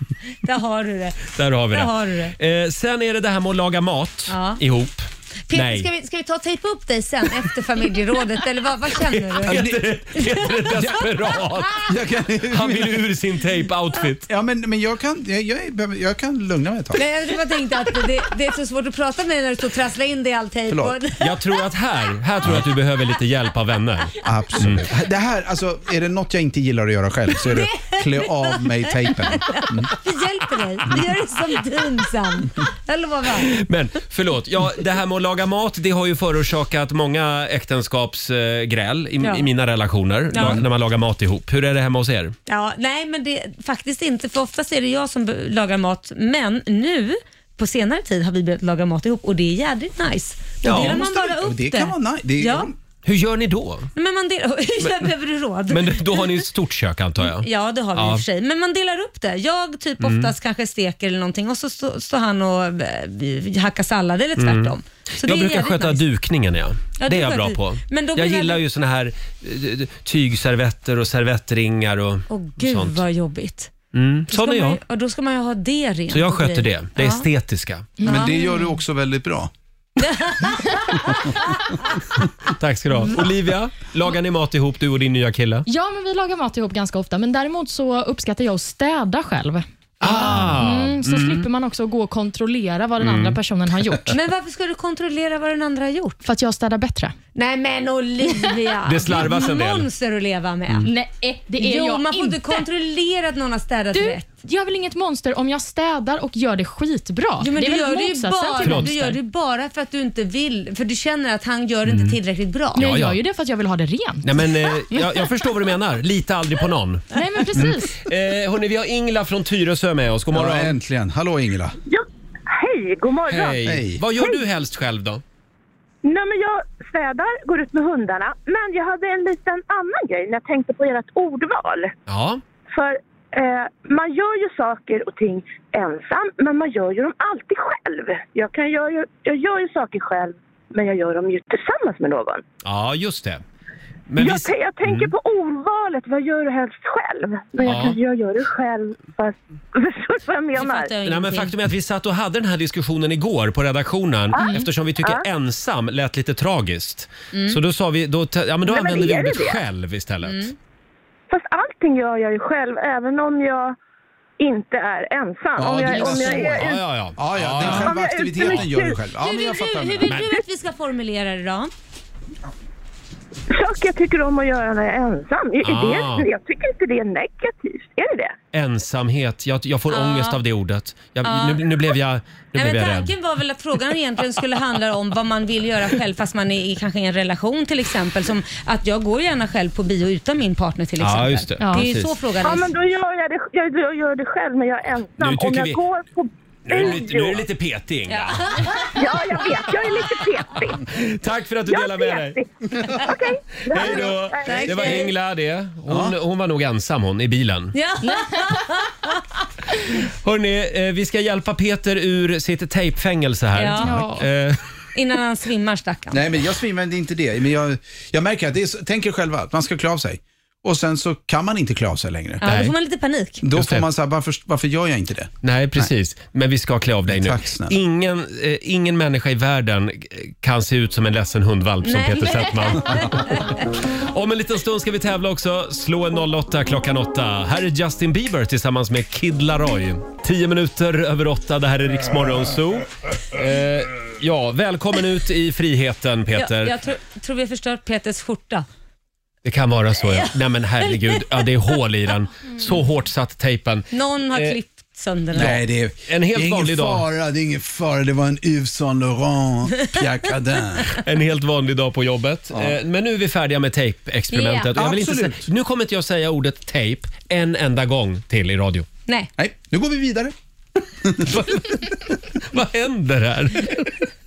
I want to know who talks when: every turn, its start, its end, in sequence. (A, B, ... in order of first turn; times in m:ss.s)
0:00.4-0:02.3 A
0:01.3-0:05.9 B
0:04.3-0:04.6 A
0:05.5-0:11.0 A
0:09.0-0:12.0 B
0:09.5-0:09.9 C
0:11.8-0:13.1 C
0:12.5-0:14.3 B
0:14.3-0:17.0 C
0:17.0-0:21.4 A
0:20.7-0:21.0 C
0:21.2-0:24.9 B
0:24.2-0:29.9 C
0:27.5-0:33.5 A
0:33.4-0:42.4 B
0:39.2-0:39.5 A
0:40.3-0:40.6 A
0:42.5-0:52.7 A
0:50.6-0:51.0 B
0:50.6-0:52.8 C
0:53.0-0:53.9 B
0:54.0-0:56.4 A
0:55.7-0:58.2 B
0:57.2-1:06.0 A
1:00.0-1:00.3 B
1:04.4-1:13.0 B
1:07.0-1:08.6 A
1:12.3-1:13.7 A
1:13.9-1:14.8 B
1:14.3-1:17.3 A
1:16.1-1:17.9 B
1:18.0-1:18.7 D
1:18.0-1:19.5 C
1:20.0-1:22.0 A
1:22.5-1:25.7 B
1:25.7-1:34.1 D
1:30.0-1:31.5 B
1:33.0-1:33.4 B
1:34.1-1:36.2 A
1:36.2-1:37.2 D
1:37.4-1:40.9 A
1:38.9-1:39.9 B
1:40.8-1:42.6 D
1:41.6-1:44.3 A
1:43.9-1:49.1 D
1:47.4-1:52.8 A
1:48.6-1:49.0 B
1:51.9-1:52.2 B
1:52.8-1:55.3 D
1:52.8-1:53.2 B
1:54.2-2:00.8 B
1:57.1-1:58.0 D
2:00.3-2:01.8 C
2:01.9-2:03.6 E
2:03.3-2:05.2 B
2:03.6-2:04.0 C
2:06.0-2:11.9 E
2:12.1-2:12.4 B
2:12.7-2:22.4 E
2:22.6-2:23.4 B
2:24.1-2:25.1 B
2:24.2-2:30.9 E
2:27.6-2:28.0 B
2:30.5-2:31.5 A
2:31.1-2:40.5 B
2:34.3-2:35.2 E
2:37.3-2:37.6 A
2:38.6-2:39.6 E
2:40.2-2:40.5 A
2:41.3-2:43.8 E
2:44.4-2:46.8 E
2:45.6-2:46.7 C
2:45.9-2:48.6 B
2:47.2-2:50.2 C
2:47.6-2:49.0 E
2:49.2-2:51.7 A
2:50.1-2:50.3 B
2:53.5-2:58.4 E
2:55.6-2:56.3 B
2:58.5-3:03.1 B
2:59.9-3:00.4 A
3:01.2-3:01.6 A
3:02.6-3:12.7 A
3:11.0-3:12.1 B
3:11.6-3:11.9 D
3:12.4-3:17.4 E
3:15.2-3:15.8 B
3:16.7-3:18.6 B
3:18.1-3:18.9 A
3:18.8-3:20.9 E
3:20.9-3:22.4 B
3:21.7-3:25.1 E
3:23.7-3:27.7 B
3:24.4-3:25.1 A
3:25.9-3:26.2 C
3:27.7-3:29.2 A
3:30.0-3:34.6 B
3:33.6-3:33.9 A
3:33.8-3:34.3 D
3:35.0-3:36.2 A
3:36.1-3:42.4 C
3:42.4-3:43.4 A
3:42.4-3:42.8 B
3:43.4-3:45.9 C
3:43.6-3:43.9 B
3:45.4-4:06.7 B
3:47.1-3:47.8 C
3:51.8-3:53.6 A
4:06.4-4:08.7 A
4:09.4-4:14.6 B
4:10.9-4:11.4 A
4:13.9-4:15.6 A
4:15.3-4:17.0 B
4:15.3-4:21.0 C
4:20.9-4:28.9 B
4:24.3-4:24.7 A
4:24.8-4:25.4 C
4:29.4-4:30.3 C
4:30.9-4:31.8 C
4:31.3-4:31.8 B
4:32.4-4:34.1 B